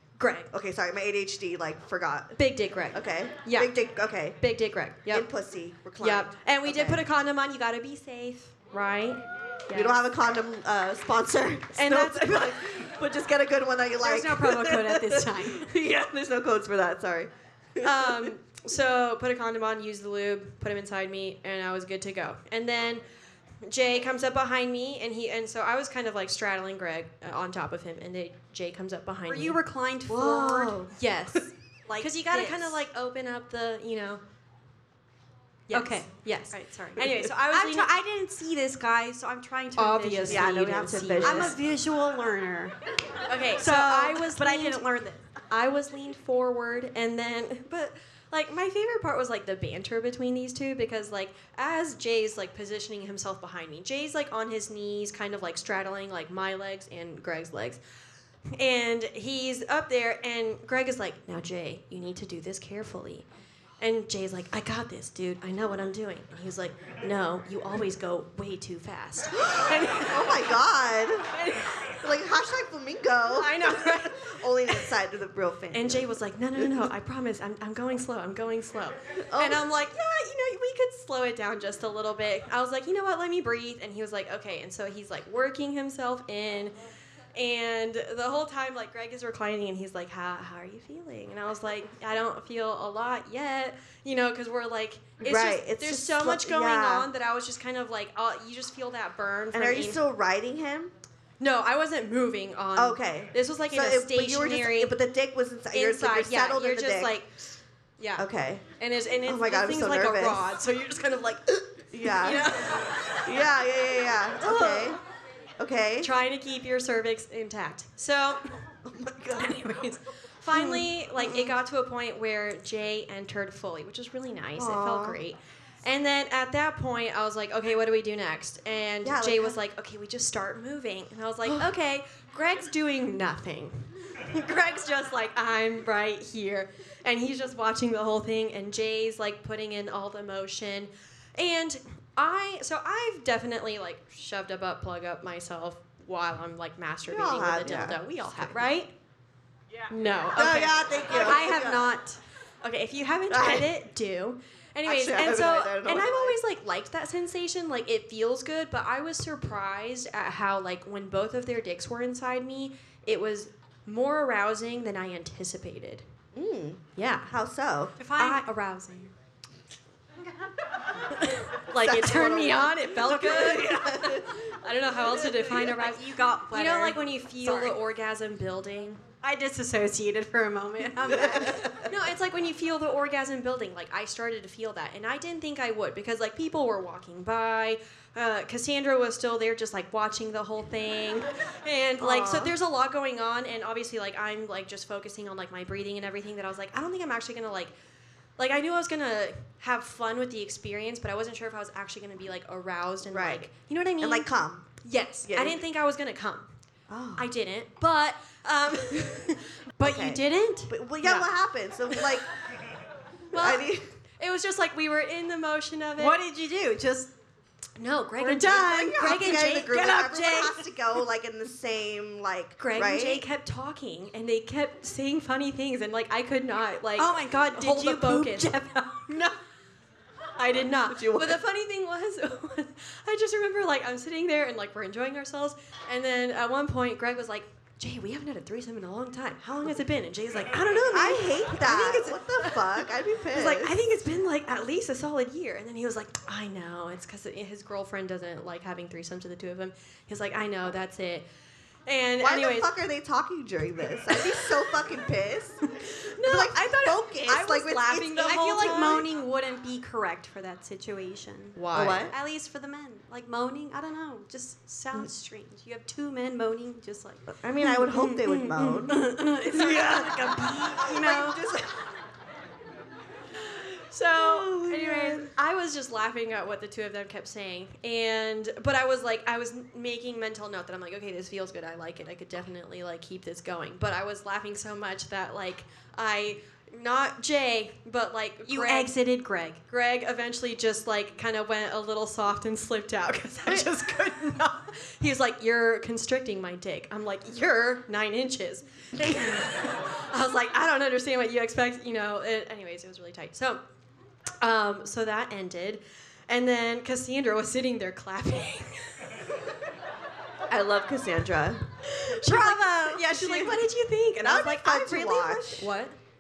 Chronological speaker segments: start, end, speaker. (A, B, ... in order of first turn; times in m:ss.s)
0:00.2-0:00.5 A
0:00.5-0:02.4 B
0:02.4-0:03.7 A
0:02.9-0:04.4 B
0:04.4-0:05.3 A
0:05.1-0:07.0 B
0:06.0-0:10.0 A
0:09.7-0:18.3 B
0:11.7-0:12.6 A
0:14.0-0:15.7 C
0:17.8-0:23.0 A
0:23.6-0:29.6 A
0:29.3-0:30.9 C
0:30.1-0:30.9 B
0:30.9-0:34.2 A
0:31.9-0:32.8 C
0:35.7-0:37.9 A
0:35.7-0:42.8 C
0:39.8-0:41.6 A
0:40.3-0:41.6 B
0:43.3-0:44.8 A
0:43.5-0:45.2 C
0:45.5-0:57.8 A
0:58.5-1:03.3 A
1:03.8-1:10.4 A
1:09.4-1:11.3 B
1:11.4-1:11.9 A
1:12.0-1:16.9 B
1:13.3-1:14.9 A
1:15.7-1:26.8 A
1:19.3-1:19.7 B
1:27.4-1:40.0 A
1:35.2-1:37.1 B
1:39.5-1:40.9 B
1:41.4-1:45.0 A
1:42.8-1:47.2 B
1:45.7-1:47.3 A
1:48.0-1:48.2 A
1:48.2-1:48.7 B
1:48.8-1:53.3 A
1:49.2-1:50.5 B
1:51.9-1:52.5 B
1:53.2-1:55.0 B
1:54.4-1:55.0 A
1:55.6-1:56.1 B
1:56.0-1:58.4 A
1:58.8-1:59.6 B
1:59.4-2:28.9 A
2:00.5-2:01.6 B
2:04.6-2:05.2 B
2:09.0-2:09.6 B
2:11.4-2:11.7 B
2:27.1-2:28.7 B
2:29.9-2:46.0 A
2:30.3-2:31.9 B
2:31.2-2:31.8 C
2:33.3-2:33.7 B
2:34.8-2:36.4 B
2:46.3-2:48.0 B
2:47.0-2:47.3 A
2:48.0-2:48.9 C
2:48.0-2:49.1 A
2:51.1-2:56.0 A
2:51.8-2:54.3 B
2:55.3-2:57.8 C
2:56.5-2:59.0 A
2:59.2-3:01.7 C
3:01.0-3:01.8 B
3:01.1-3:17.7 A
3:12.0-3:12.6 B
3:18.4-3:24.3 A
3:23.1-3:23.5 B
3:24.0-3:24.7 B
3:24.8-3:26.5 A
3:25.2-3:25.6 B
3:26.9-3:27.3 B
3:27.2-3:31.3 A
3:29.8-3:32.3 B
3:33.3-3:36.2 A
3:33.3-3:33.8 B
3:36.0-3:37.1 C
3:37.8-3:40.1 A
3:38.2-3:40.5 C
3:38.4-3:43.2 B
3:42.6-3:48.5 A
3:47.0-3:49.3 C
3:50.4-4:02.8 A
3:50.9-3:51.4 B
4:00.6-4:03.7 B
4:03.3-4:11.2 A
4:11.9-4:12.7 A
4:12.2-4:15.7 B
4:16.2-4:16.6 A
4:16.2-4:19.1 B
4:16.6-4:21.6 C
4:18.2-4:19.0 A
4:21.6-4:22.1 A
4:21.7-4:22.2 B
4:22.1-4:27.2 C
4:27.3-4:29.0 B
4:27.6-4:31.4 A
4:29.5-4:31.3 C
4:29.6-4:31.7 B
4:33.9-4:48.9 A
4:34.2-4:35.3 B
4:48.4-4:49.6 C
4:49.7-5:03.6 A
5:04.4-5:08.8 A
5:10.5-5:15.7 B
5:11.9-5:16.0 A